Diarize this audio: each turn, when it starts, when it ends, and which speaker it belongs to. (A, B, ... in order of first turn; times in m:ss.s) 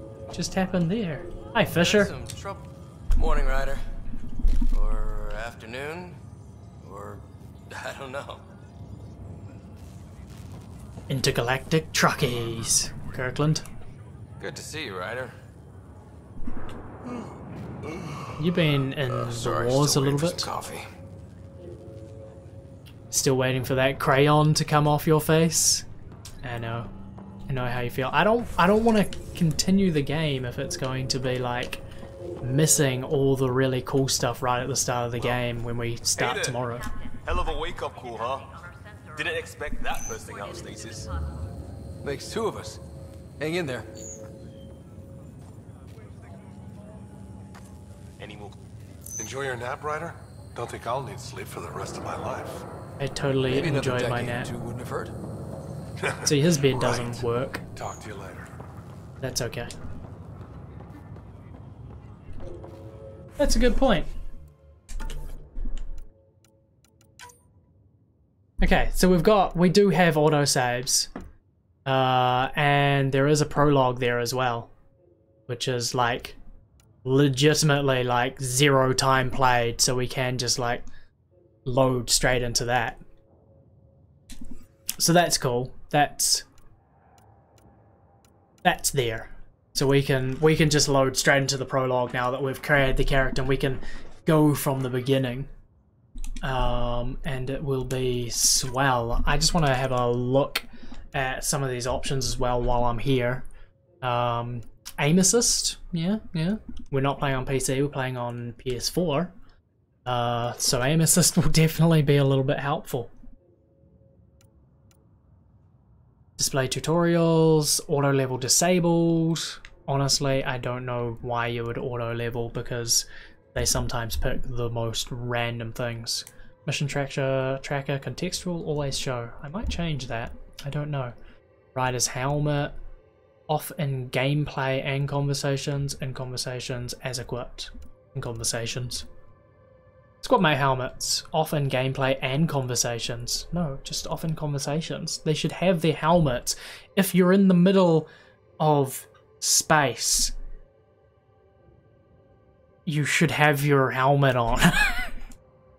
0:00.3-0:02.1 A
0:01.7-0:03.8 B
0:04.7-0:06.2 B
0:06.8-0:08.4 B
0:11.1-0:13.6 A
0:14.4-0:15.4 B
0:18.4-0:20.5 A
0:19.0-0:20.9 B
0:23.1-0:25.8 A
0:26.4-0:26.9 A
0:27.5-0:31.8 A
0:32.4-0:36.9 A
0:36.2-0:36.6 C
0:37.2-0:38.5 C
0:39.2-0:41.1 C
0:42.0-0:42.8 B
0:43.4-0:43.9 B
0:48.2-0:48.5 C
0:49.2-0:52.6 C
0:53.0-0:54.5 A
0:53.5-0:55.2 B
0:56.2-0:57.6 A
0:56.8-0:57.1 B
0:57.8-0:58.5 C
0:59.2-0:59.7 A
1:03.4-1:04.1 A
1:08.6-1:11.1 A
1:11.9-1:14.7 A
1:15.5-1:16.4 A
1:17.0-1:20.9 A
1:21.6-1:23.0 A
1:25.0-1:26.4 A
1:28.6-1:35.5 A
1:36.4-1:43.5 A
1:44.0-1:49.3 A
1:50.1-1:53.1 A
1:56.4-2:11.1 A
2:11.8-2:12.7 A
2:13.5-2:19.1 A
2:20.2-2:30.3 A
2:32.9-2:35.1 A